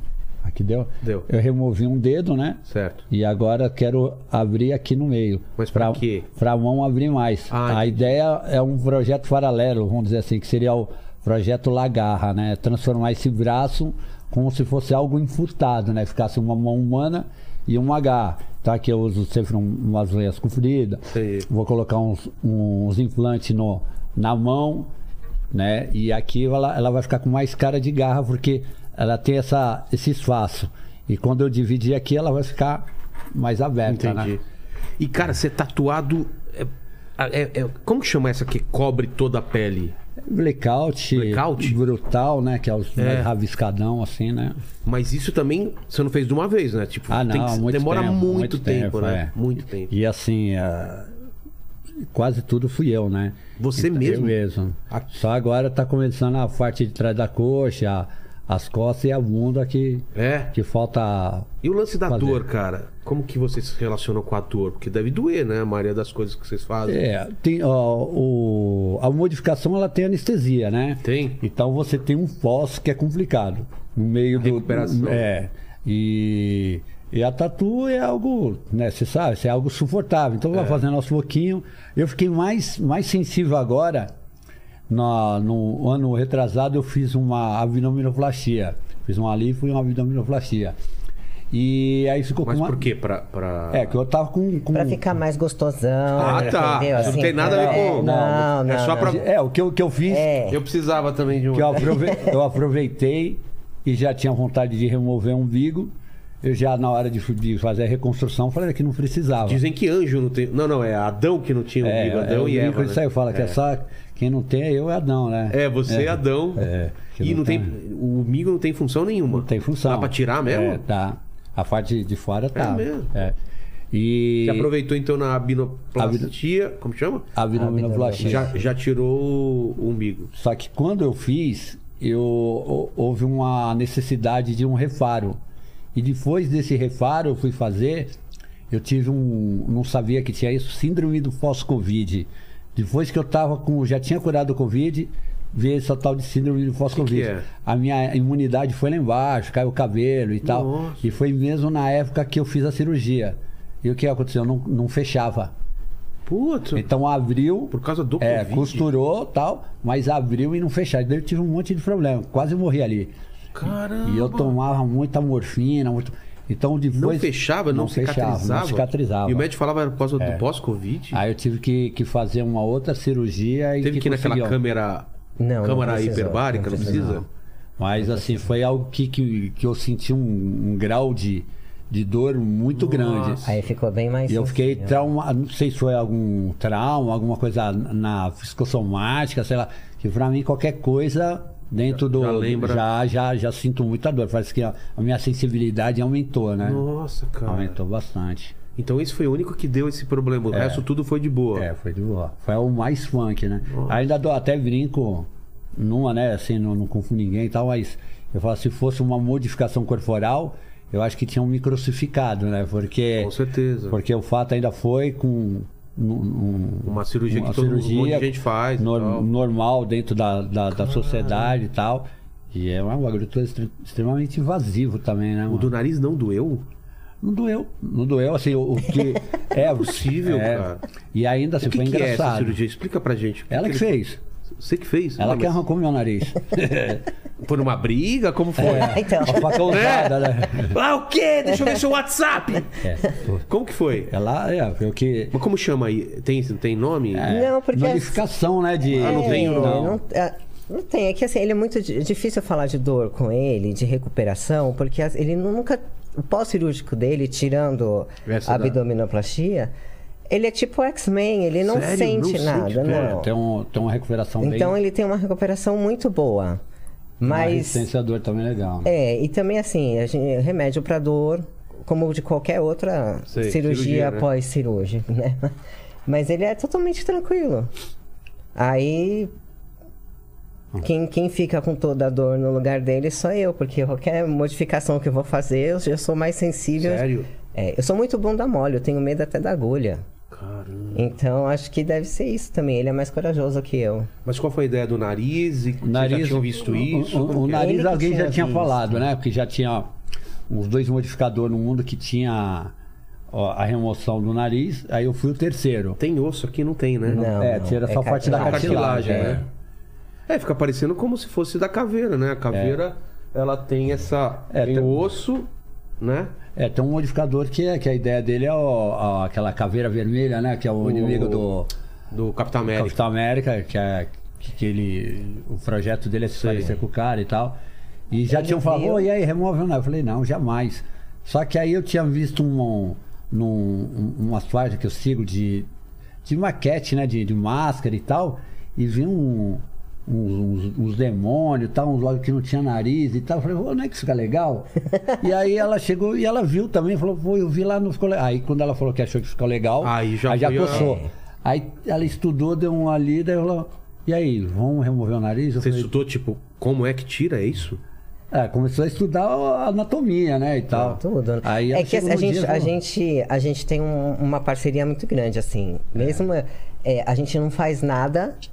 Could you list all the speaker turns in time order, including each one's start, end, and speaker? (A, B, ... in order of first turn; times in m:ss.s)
0:00.4-0:24.9 A
0:01.0-0:01.3 B
0:02.7-0:03.0 B
0:05.6-0:06.3 B
0:07.5-0:08.0 B
0:21.1-0:21.5 B
0:25.5-0:34.3 A
0:33.9-0:34.4 B
0:35.0-0:40.0 B
0:40.2-0:44.6 A
0:41.1-0:41.8 B
0:43.0-0:43.3 B
0:44.8-0:49.9 B
0:47.1-0:49.3 A
0:49.9-0:51.1 A
0:52.1-1:01.5 A
0:53.6-0:54.4 B
1:00.1-1:00.5 B
1:01.6-1:07.0 B
1:02.1-1:02.4 A
1:06.8-1:24.1 A
1:11.0-1:11.4 B
1:14.4-1:15.3 B
1:20.5-1:20.8 B
1:24.9-1:30.7 A
1:31.5-1:32.9 A
1:32.4-1:33.9 B
1:33.7-1:35.1 A
1:34.7-1:39.2 C
1:36.2-1:39.2 B
1:36.2-1:40.3 A
1:40.1-1:40.6 C
1:40.5-1:42.0 B
1:41.5-1:49.6 A
1:49.4-1:53.6 B
1:51.8-1:57.7 A
1:55.5-2:00.8 B
1:59.3-2:03.3 A
2:02.5-2:03.1 B
2:03.9-2:04.7 A
2:04.4-2:07.3 B
2:06.0-2:06.3 A
2:07.3-2:08.6 A
2:07.5-2:08.5 C
2:08.2-2:10.3 B
2:10.3-2:15.4 A
2:15.9-2:18.1 A
2:18.7-2:35.5 A
2:26.9-2:27.5 B
2:30.4-2:31.0 B
2:36.3-2:36.8 B
2:36.7-2:43.1 A
2:37.7-2:38.8 B
2:43.5-2:44.5 B
2:44.0-2:49.5 A
2:46.9-2:51.2 B
2:51.1-2:54.6 A
2:53.8-2:55.1 B
2:55.4-2:57.2 C
2:55.6-2:57.2 B
2:56.8-2:57.2 A
2:57.8-3:03.5 A
3:02.7-3:03.5 B
3:03.4-3:05.0 C
3:04.3-3:16.8 A
3:11.9-3:12.8 B
3:16.6-3:17.7 B
3:17.4-3:18.5 A
3:18.8-3:21.7 B
3:20.5-3:20.8 A
3:21.5-3:33.3 A
3:23.7-3:24.0 B
3:33.2-3:34.0 B
3:33.9-3:45.7 A
3:36.8-3:39.3 B
3:40.7-3:41.6 B
3:45.5-3:46.6 B
3:47.2-3:52.6 A
3:49.6-3:50.8 B
3:51.6-3:54.0 B
3:53.5-3:54.2 A
3:54.6-3:55.6 B
3:55.2-3:57.0 A
3:57.4-4:02.8 B
3:58.6-4:00.8 A
3:58.6-3:59.9 C
4:02.8-4:03.4 A
4:03.5-4:04.1 B
4:04.0-4:05.3 A
4:05.3-4:07.3 B
4:07.1-4:10.0 A
4:07.3-4:08.2 C
4:08.9-4:10.0 B
4:09.0-4:19.7 C
4:18.2-4:18.8 B
4:20.3-4:23.3 C
4:21.6-4:23.2 B
4:22.8-4:24.8 A
4:24.4-4:26.6 C
4:27.2-4:27.9 C
4:27.3-4:28.9 A
4:28.8-4:35.5 C
4:33.3-4:34.3 B
4:36.0-4:37.7 C
4:38.6-4:39.3 C
4:40.8-4:50.0 C
4:46.8-4:47.3 B
4:50.3-4:51.1 B
4:50.9-4:54.1 C
4:54.2-4:57.7 B
4:55.8-4:59.9 A
4:57.6-4:59.0 C
5:00.5-5:02.7 A
5:03.3-5:06.0 A
5:06.0-5:07.3 B
5:07.1-5:09.4 C
5:07.1-5:09.4 A
5:08.2-5:09.4 B
5:10.3-5:15.5 B
5:12.5-5:12.8 A
5:14.5-5:15.0 A
5:16.0-5:16.3 B
5:16.5-5:21.7 A
5:20.8-5:21.4 B
5:22.1-5:22.9 B
5:22.7-5:27.6 A
5:26.4-5:26.7 B
5:28.1-5:35.7 A
5:28.3-5:29.0 C
5:36.2-5:55.9 A
5:49.8-5:50.9 B
5:50.7-5:51.1 C
5:55.6-5:57.8 B
5:58.3-6:02.7 A
6:00.7-6:08.4 C